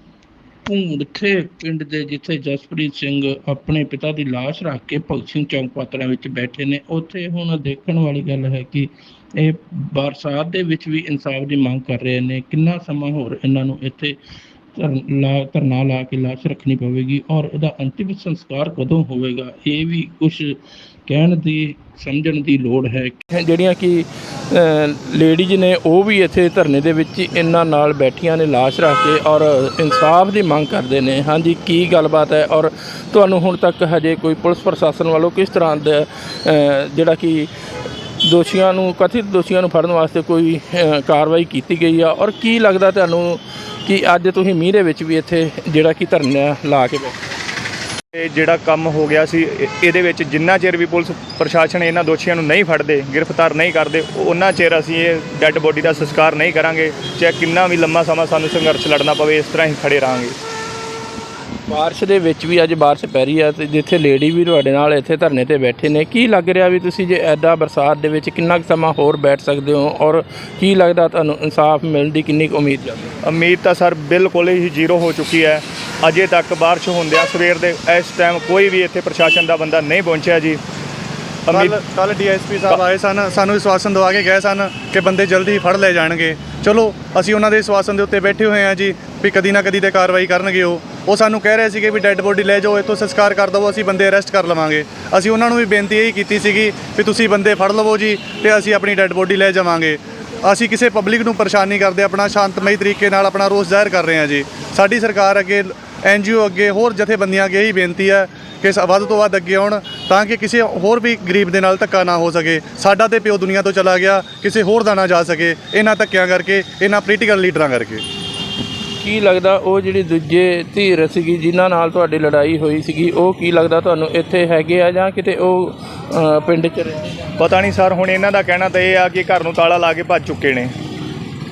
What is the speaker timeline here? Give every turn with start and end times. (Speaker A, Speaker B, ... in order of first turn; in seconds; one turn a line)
Speaker A: 0.6-14.2
Speaker A: 14.7-37.5
Speaker A: 38.2-47.2
Speaker B: 48.1-60.4
Speaker A: 61.7-73.1
Speaker B: 73.2-80.6
Speaker B: 81.5-81.8
Speaker C: 81.5-118.0
Speaker A: 119.0-127.2
Speaker B: 127.4-130.7